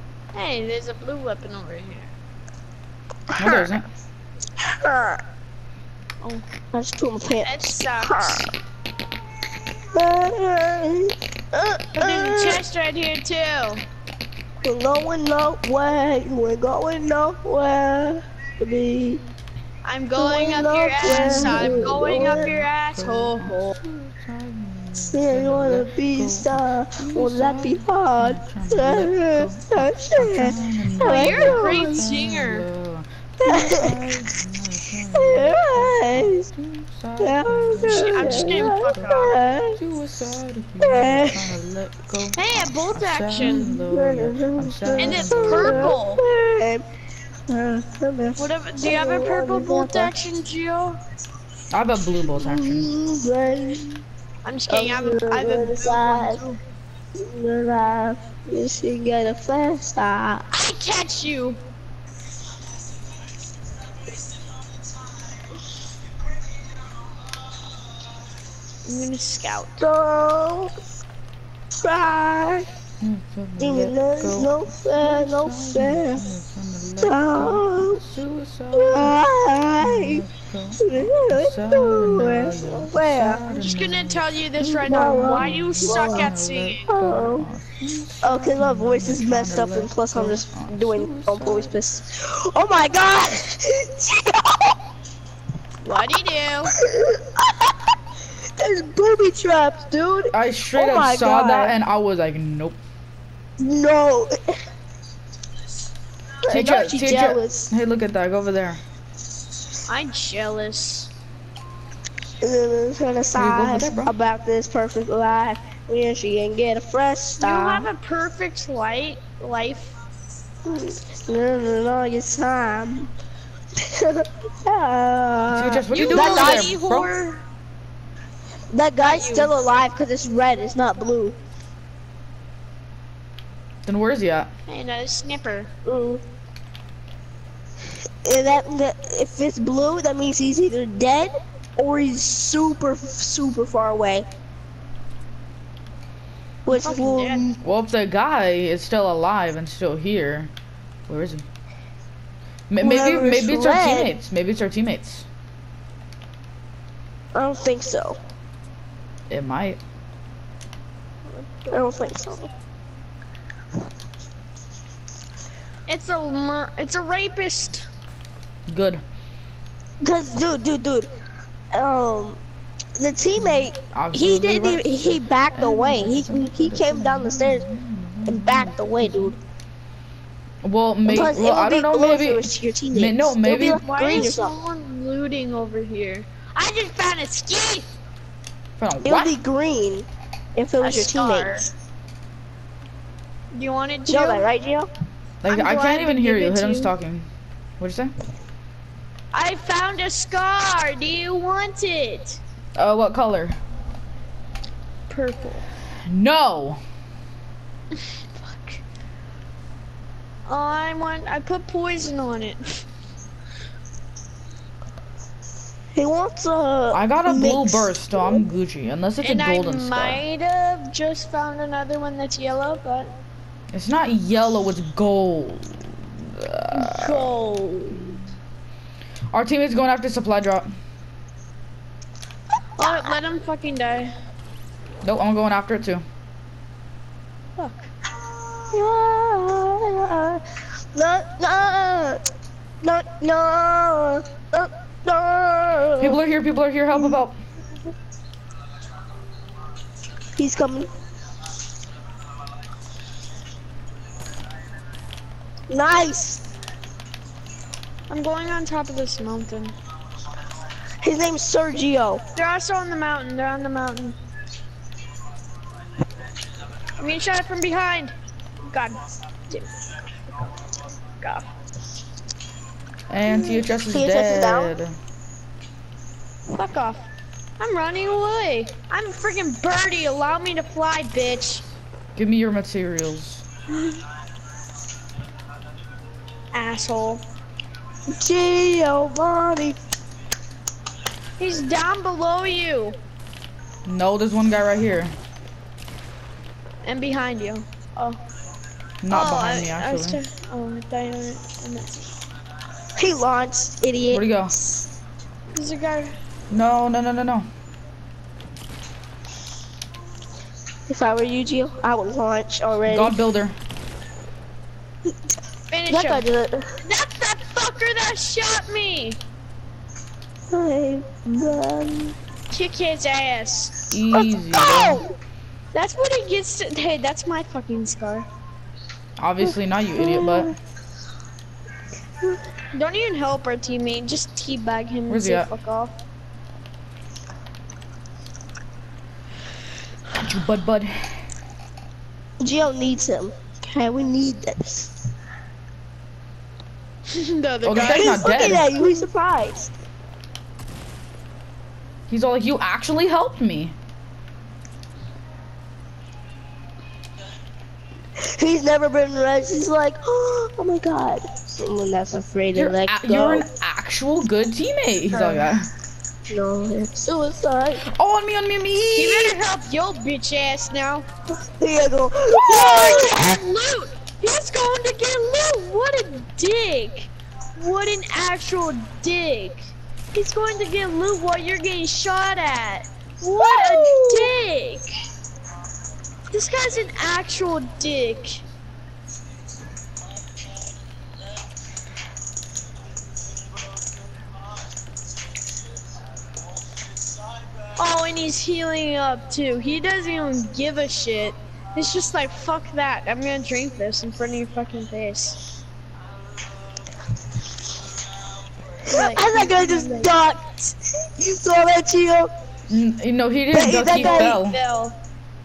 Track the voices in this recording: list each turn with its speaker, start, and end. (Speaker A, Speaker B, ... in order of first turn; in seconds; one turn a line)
Speaker A: 0.3-2.1
Speaker B: 3.3-3.7
Speaker C: 3.4-3.8
Speaker B: 4.6-5.2
Speaker B: 6.7-8.5
Speaker A: 7.4-8.5
Speaker B: 9.9-12.6
Speaker A: 12.0-13.8
Speaker B: 14.6-19.2
Speaker A: 19.8-23.7
Speaker B: 20.2-22.5
Speaker C: 21.0-46.0
Speaker B: 25.1-32.1
Speaker A: 31.1-32.6
Speaker B: 33.4-34.0
Speaker B: 35.2-36.4
Speaker B: 37.2-39.8
Speaker A: 37.8-39.3
Speaker B: 40.8-41.4
Speaker A: 42.4-43.8
Speaker B: 43.9-46.8
Speaker A: 45.0-46.2
Speaker B: 47.5-50.1
Speaker A: 48.4-51.0
Speaker C: 51.7-52.9
Speaker B: 52.3-54.0
Speaker A: 54.4-56.6
Speaker B: 54.7-56.4
Speaker B: 57.2-60.4
Speaker A: 60.5-61.6
Speaker A: 68.8-69.8
Speaker B: 69.8-70.7
Speaker B: 71.8-72.6
Speaker C: 73.0-79.2
Speaker B: 73.6-76.2
Speaker B: 77.0-78.0
Speaker B: 78.7-80.2
Speaker C: 79.8-91.8
Speaker B: 80.8-83.4
Speaker A: 83.5-86.9
Speaker B: 84.8-86.3
Speaker B: 86.9-87.5
Speaker B: 88.2-94.7
Speaker A: 95.8-96.7
Speaker B: 96.8-97.8
Speaker B: 98.6-101.7
Speaker C: 100.3-102.8
Speaker B: 103.6-104.4
Speaker B: 106.4-107.7
Speaker C: 106.5-108.8
Speaker A: 109.9-111.1
Speaker B: 112.4-117.9
Speaker C: 113.4-114.1
Speaker A: 117.4-119.9
Speaker B: 120.7-123.1
Speaker B: 123.9-126.7
Speaker C: 125.5-127.1
Speaker A: 125.9-127.4
Speaker B: 128.7-131.3
Speaker A: 129.0-129.5
Speaker C: 133.8-134.5
Speaker A: 134.7-135.7
Speaker B: 135.8-136.2
Speaker B: 138.2-144.2
Speaker B: 146.6-147.6
Speaker A: 146.7-147.4
Speaker C: 147.6-150.5
Speaker C: 151.1-151.4
Speaker C: 152.7-155.3
Speaker B: 152.8-154.1
Speaker B: 157.3-158.2
Speaker C: 159.3-159.8
Speaker A: 161.3-162.2
Speaker B: 161.7-162.5
Speaker A: 165.9-167.8
Speaker C: 168.7-169.0
Speaker B: 170.0-171.1
Speaker B: 171.7-172.4
Speaker B: 173.0-177.6
Speaker C: 173.4-179.4
Speaker B: 178.2-179.3
Speaker C: 180.6-183.8
Speaker B: 181.0-184.6
Speaker A: 183.8-187.9
Speaker C: 188.8-189.3
Speaker B: 189.0-191.6
Speaker A: 190.8-191.7
Speaker A: 193.5-194.5
Speaker B: 194.1-194.9
Speaker C: 195.4-197.3
Speaker A: 195.5-196.9
Speaker C: 197.8-198.1
Speaker A: 199.3-202.4
Speaker C: 202.8-203.6
Speaker A: 205.1-205.7
Speaker C: 206.1-206.8
Speaker A: 208.3-208.8
Speaker A: 210.4-212.7
Speaker B: 215.9-218.4
Speaker C: 216.9-220.2
Speaker A: 219.2-223.1
Speaker C: 223.7-227.3
Speaker A: 226.7-228.0
Speaker C: 229.3-230.7
Speaker A: 232.8-234.1
Speaker B: 232.8-233.1
Speaker C: 235.0-236.0
Speaker A: 237.6-237.9
Speaker B: 238.7-240.4
Speaker B: 240.9-242.2
Speaker B: 242.8-246.2
Speaker C: 246.0-247.4
Speaker B: 246.9-247.2
Speaker B: 250.4-250.9
Speaker B: 255.7-256.4
Speaker A: 258.1-259.7
Speaker B: 261.0-262.2
Speaker A: 262.4-264.1
Speaker A: 267.0-268.1
Speaker A: 268.7-268.9
Speaker A: 269.5-269.8
Speaker C: 273.1-274.9
Speaker B: 273.5-274.7
Speaker A: 276.5-277.1
Speaker A: 277.6-281.6
Speaker C: 282.1-283.4
Speaker A: 283.7-284.0
Speaker A: 286.5-287.2
Speaker B: 288.1-289.8
Speaker A: 291.4-292.9
Speaker C: 293.9-295.1
Speaker A: 296.8-298.2
Speaker C: 299.0-300.2
Speaker A: 299.1-302.1
Speaker B: 302.9-304.2
Speaker C: 304.1-304.5
Speaker A: 305.5-306.1
Speaker C: 306.5-307.5
Speaker B: 310.9-313.1
Speaker C: 312.9-313.6
Speaker A: 315.7-316.2
Speaker B: 315.9-316.6
Speaker A: 316.8-319.2
Speaker B: 320.5-322.1
Speaker A: 322.5-323.7
Speaker C: 323.9-325.0
Speaker B: 324.1-325.1
Speaker A: 325.7-328.3
Speaker C: 329.2-330.5
Speaker B: 329.9-330.5
Speaker A: 332.7-335.9
Speaker C: 335.1-335.5
Speaker C: 340.2-340.9
Speaker B: 342.4-345.0
Speaker A: 347.1-348.1
Speaker C: 347.6-348.7
Speaker B: 347.8-349.7
Speaker C: 352.1-353.8
Speaker B: 358.2-363.4
Speaker C: 362.5-365.7
Speaker B: 366.3-367.8
Speaker C: 367.9-369.4
Speaker A: 368.9-371.0
Speaker B: 371.6-373.1
Speaker A: 372.4-384.9
Speaker C: 383.4-384.3
Speaker A: 386.3-388.4
Speaker A: 397.8-405.4
Speaker A: 408.9-410.1
Speaker B: 408.9-410.5
Speaker B: 411.2-412.3
Speaker C: 412.7-414.6
Speaker B: 413.5-414.4
Speaker A: 413.9-414.9